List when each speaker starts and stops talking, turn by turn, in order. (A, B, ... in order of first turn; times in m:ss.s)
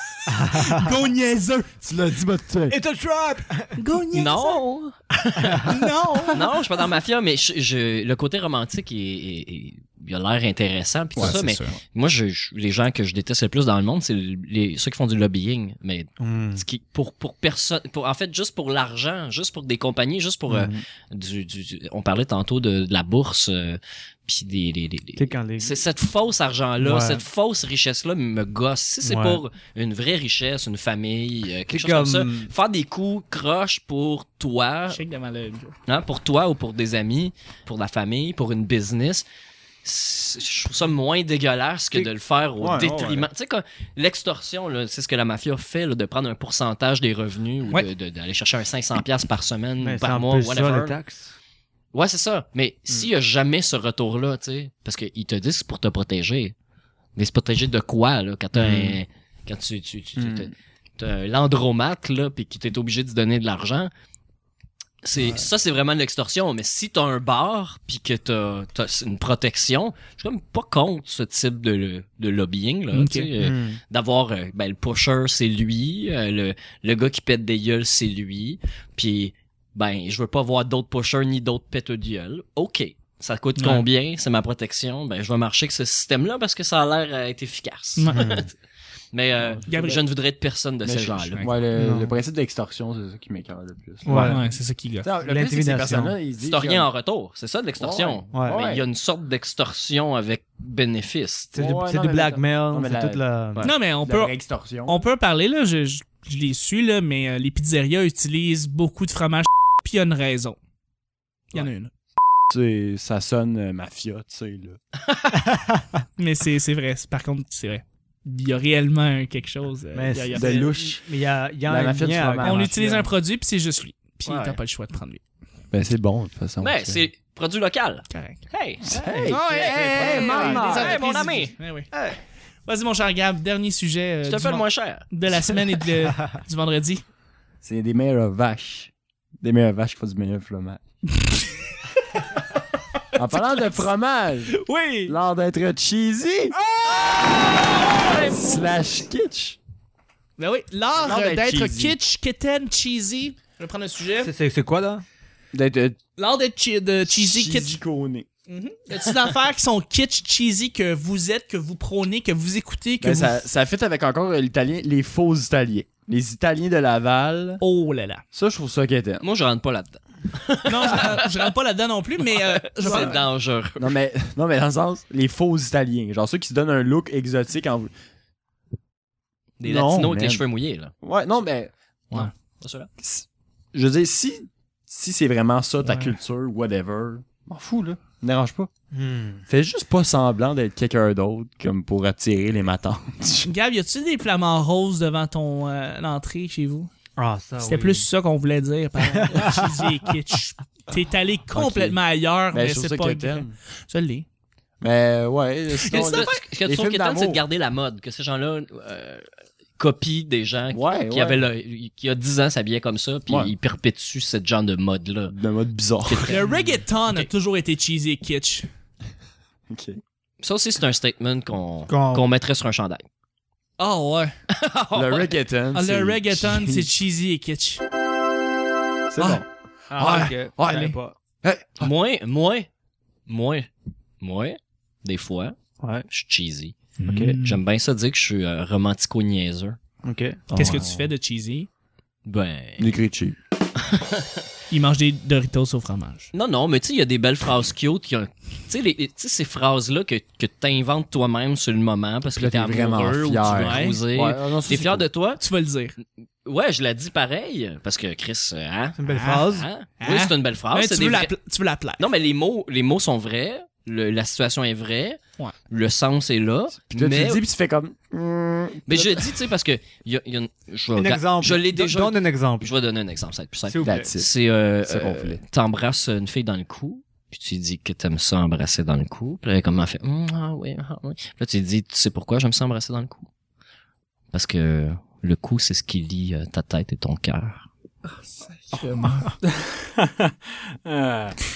0:00.3-0:00.9 A
0:00.4-0:01.7 B
0:01.8-0:02.8 C
0:02.7-0:03.8 A
0:03.8-0:04.6 B
0:04.1-0:05.7 D
0:05.4-0:05.7 A
0:05.6-0:06.6 B
0:06.3-0:35.0 D
0:11.2-0:11.8 C
0:11.2-0:11.6 B
0:16.2-0:16.6 A
0:20.5-0:20.8 A
0:25.2-0:25.8 A
0:26.8-0:27.2 A
0:29.0-0:29.4 A
0:31.7-0:32.5 A
0:34.9-0:35.8 B
0:35.9-0:39.2 D
0:39.8-0:51.0 D
0:42.6-0:43.3 C
0:49.8-0:51.4 A
0:51.9-0:56.5 D
0:57.2-1:03.9 D
0:58.6-0:59.0 C
1:00.2-1:00.5 C
1:05.0-1:28.5 D
1:12.9-1:13.3 B
1:13.4-1:13.8 A
1:23.6-1:23.9 B
1:28.0-1:28.2 B
1:28.1-1:28.5 A
1:29.1-1:31.5 D
1:29.4-1:29.8 C
1:29.7-1:30.0 B
1:30.8-1:34.4 C
1:31.8-1:32.1 A
1:34.0-1:34.4 A
1:34.1-1:35.1 B
1:35.0-1:36.9 C
1:35.2-1:36.1 A
1:36.4-1:41.5 D
1:37.8-1:38.8 C
1:38.3-1:38.6 A
1:41.5-1:43.7 A
1:41.6-1:45.0 C
1:43.6-1:44.3 B
1:44.9-1:50.6 B
1:51.5-1:51.9 B
1:52.5-1:54.8 C
1:55.4-1:56.0 A
1:56.2-2:00.6 B
1:59.9-2:03.1 A
2:00.1-2:01.0 C
2:01.7-2:02.7 C
2:02.4-2:05.2 B
2:04.2-2:04.6 D
2:05.7-2:07.0 C
2:06.6-2:08.9 D
2:08.1-2:08.4 B
2:08.8-2:11.0 C
2:08.9-2:10.9 A
2:09.2-2:11.9 B
2:09.5-2:11.6 D
2:12.7-2:17.0 B
2:14.2-2:15.6 D
2:17.6-2:20.8 C
2:23.1-2:26.6 C
2:23.3-2:23.8 B
2:24.5-2:25.2 B
2:26.7-2:28.4 B
2:27.1-2:28.6 D
2:28.2-2:29.6 C
2:30.4-2:34.3 B
2:31.0-2:32.0 C
2:34.2-2:35.0 A
2:35.5-2:36.0 C
2:36.2-2:37.8 B
2:37.0-2:38.3 C
2:38.5-2:43.4 B
2:43.0-2:47.6 C
2:47.6-2:48.2 B
2:48.3-2:49.2 C
2:49.2-2:51.5 D
2:50.7-2:53.2 B
2:52.3-2:53.9 D
2:52.9-2:53.2 C
2:53.8-2:57.9 C
2:59.6-3:00.9 D
2:59.6-3:00.4 C
3:01.0-3:02.3 C
3:02.1-3:02.9 D
3:03.0-3:08.7 C
3:05.8-3:06.1 B
3:08.9-3:09.5 A
3:09.5-3:13.5 C
3:13.4-3:16.9 B
3:17.2-3:18.1 A
3:17.6-3:24.2 B
3:19.0-3:20.0 A
3:21.5-3:22.0 C
3:22.5-3:23.5 C
3:24.8-3:27.4 C
3:25.8-3:26.4 B
3:25.9-3:29.2 D
3:29.8-3:35.3 D
3:30.7-3:31.4 C
3:33.3-3:33.5 C
3:35.3-3:36.4 C
3:36.1-3:36.5 D
3:36.3-3:38.7 B
3:39.7-3:40.0 C
3:40.4-3:43.0 D
3:41.9-3:42.3 A
3:43.8-3:44.3 B
3:44.5-3:45.3 D
3:44.9-3:46.9 C
3:45.7-3:47.8 B
3:49.1-3:51.9 C
3:49.9-3:51.2 A
3:51.8-3:52.7 D
3:53.3-3:53.7 D
3:54.2-3:55.6 D
3:55.8-3:56.0 A
3:56.1-3:59.8 D
3:57.0-3:57.6 B
4:00.0-4:00.9 A
4:00.5-4:01.0 C
4:00.5-4:01.7 B
4:02.2-4:02.9 D
4:02.8-4:03.4 C
4:03.8-4:04.4 D
4:04.7-4:06.3 B
4:06.3-4:15.4 D
4:12.3-4:15.1 C
4:13.6-4:14.0 B
4:15.4-4:16.0 B
4:16.4-4:21.3 D
4:19.0-4:19.7 A
4:19.1-4:19.5 B
4:20.0-4:22.0 B
4:22.0-4:27.4 D
4:26.8-4:29.4 C
4:28.9-4:43.3 D
4:30.9-4:32.7 A
4:33.7-4:34.1 A
4:33.8-4:34.3 C
4:34.8-4:35.4 C
4:44.3-4:47.7 D
4:48.4-4:49.3 B